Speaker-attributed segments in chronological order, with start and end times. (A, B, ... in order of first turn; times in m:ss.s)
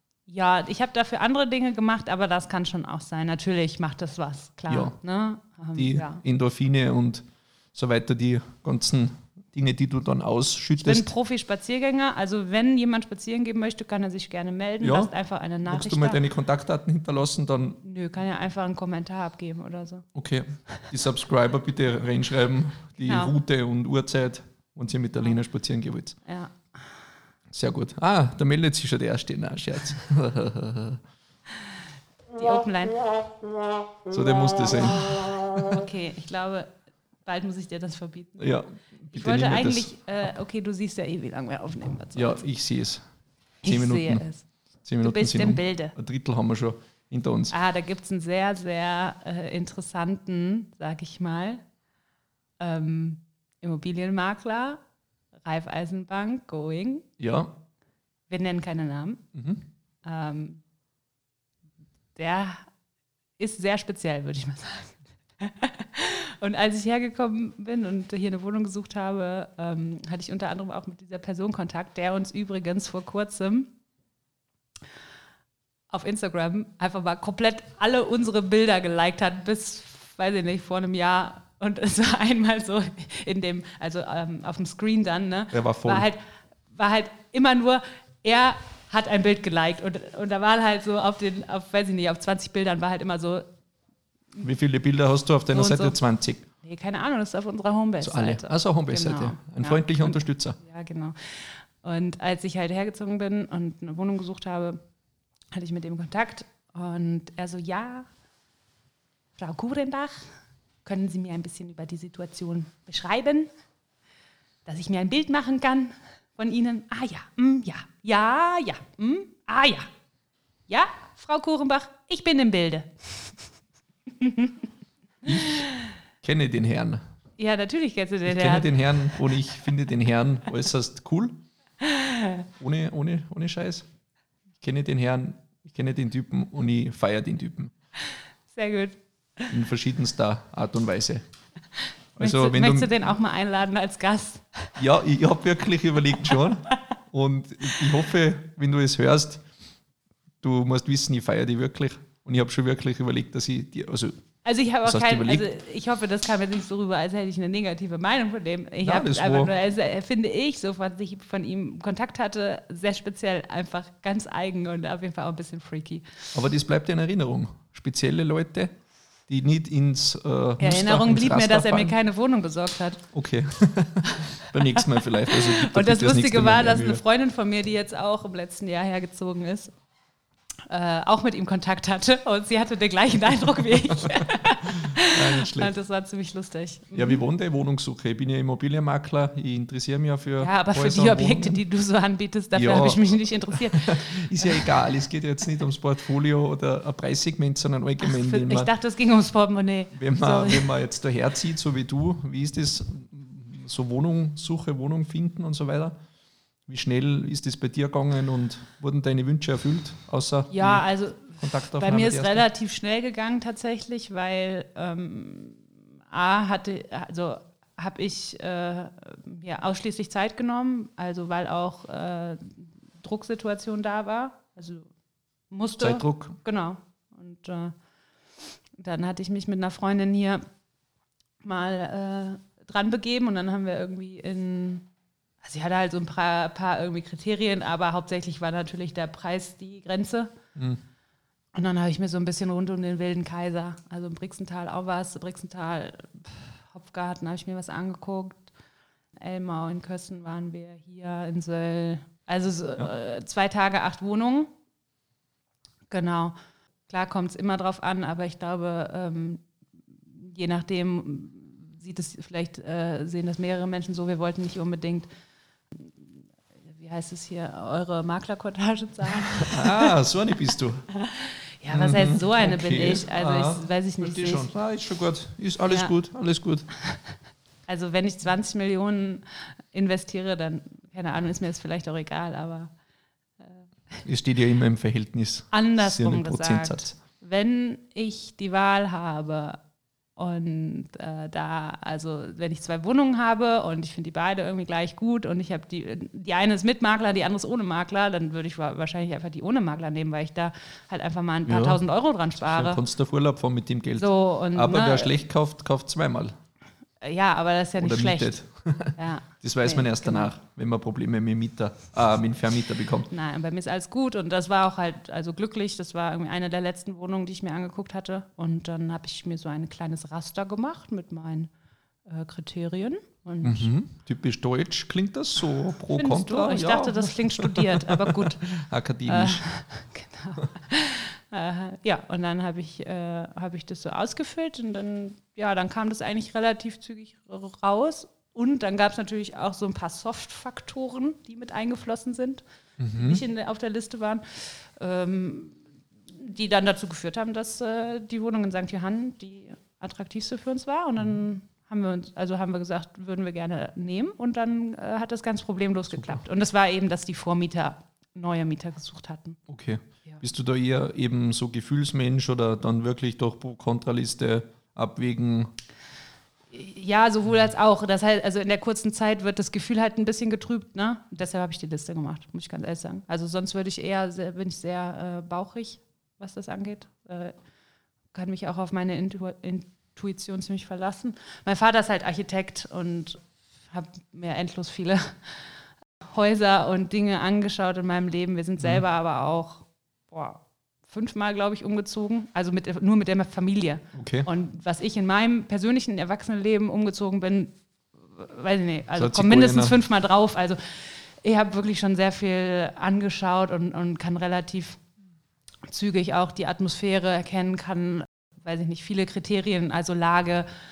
0:00.3-0:06.2 A
0:04.7-0:05.0 B
0:05.8-0:11.1 B
0:10.8-0:16.2 A
0:14.8-0:15.1 B
0:15.7-0:17.8 B
0:17.8-0:20.0 A
0:20.1-0:26.2 B
0:23.1-0:23.4 A
0:26.2-0:26.8 A
0:27.5-0:31.0 B
0:32.4-0:33.0 A
0:34.1-0:35.7 B
0:35.7-0:36.7 A
0:37.2-0:38.5 A
0:38.4-0:39.9 B
0:39.1-0:42.4 A
0:42.2-0:43.0 B
0:43.6-0:44.3 B
0:43.6-0:44.4 A
0:44.8-0:47.6 B
0:45.0-0:46.0 A
0:47.5-0:51.6 A
0:52.6-0:54.8 A
0:55.5-0:57.1 A
0:57.2-0:57.6 B
0:58.3-0:59.2 A
0:59.3-0:59.6 B
1:00.0-1:00.6 A
1:02.2-1:02.7 A
1:03.4-1:13.7 A
1:15.9-1:26.2 A
1:25.5-1:26.1 B
1:26.7-1:33.4 A
1:34.4-1:36.5 B
1:35.5-1:36.0 A
1:36.6-1:44.8 A
1:38.0-1:40.6 B
1:45.5-1:48.1 A
1:49.4-1:50.3 A
1:50.8-1:53.5 A
1:54.7-1:59.9 A
2:00.7-2:03.4 A
2:04.2-2:04.6 A
2:05.2-2:05.6 B
2:05.2-2:05.9 A
2:06.2-2:07.0 B
2:07.4-2:09.3 A
2:08.2-2:11.4 B
2:11.8-2:12.5 A
2:12.6-2:13.9 B
2:14.6-2:17.7 B
2:18.1-2:19.0 A
2:19.5-2:21.2 B
2:22.2-2:22.9 B
2:22.2-2:24.7 A
2:24.8-2:29.4 B
2:30.4-2:34.2 B
2:34.4-2:46.2 A
2:34.8-2:35.5 B
2:38.8-2:39.5 B
2:46.3-2:52.0 B
2:50.6-2:53.1 A
2:53.1-2:57.0 B
2:54.1-2:59.8 A
3:00.7-3:07.2 A
3:04.0-3:05.7 B
3:06.9-3:11.6 B
3:10.4-3:14.7 A
3:12.6-3:18.7 B
3:18.0-3:20.7 A
3:19.9-3:26.0 B
3:26.7-3:32.5 B
3:30.5-3:44.9 A
3:45.5-3:47.8 A
3:45.8-3:46.4 B
3:48.8-3:50.4 A
3:51.4-3:54.9 A
3:55.4-4:00.4 A
4:00.6-4:00.8 B
4:01.6-4:08.5 A
4:09.2-4:14.5 A
4:15.9-4:16.4 A
4:16.9-4:19.4 A
4:20.1-4:25.1 A
4:25.8-4:26.0 A
4:26.7-4:29.9 A
4:29.4-4:30.9 B
4:31.0-4:34.5 A
4:31.7-4:36.7 B
4:35.7-4:35.9 A
4:37.7-4:42.7 A
4:44.0-4:47.0 B
4:45.5-4:49.6 A
4:50.2-5:02.8 A
5:01.5-5:01.8 B
5:02.4-5:06.3 B
5:04.0-5:05.1 A
5:07.0-5:08.4 A
5:07.8-5:13.1 B
5:09.0-5:10.3 A
5:13.1-5:21.5 A
5:22.0-5:23.7 A
5:23.4-5:29.5 B
5:25.9-5:45.6 A
5:42.8-5:43.2 B
5:46.2-5:59.4 A
5:56.0-5:56.2 B
5:59.5-6:05.5 B
6:06.5-6:17.3 A
6:18.1-6:25.6 A
6:26.1-6:44.8 A
6:33.9-6:34.3 B
6:39.0-6:39.8 B
6:45.6-6:50.5 A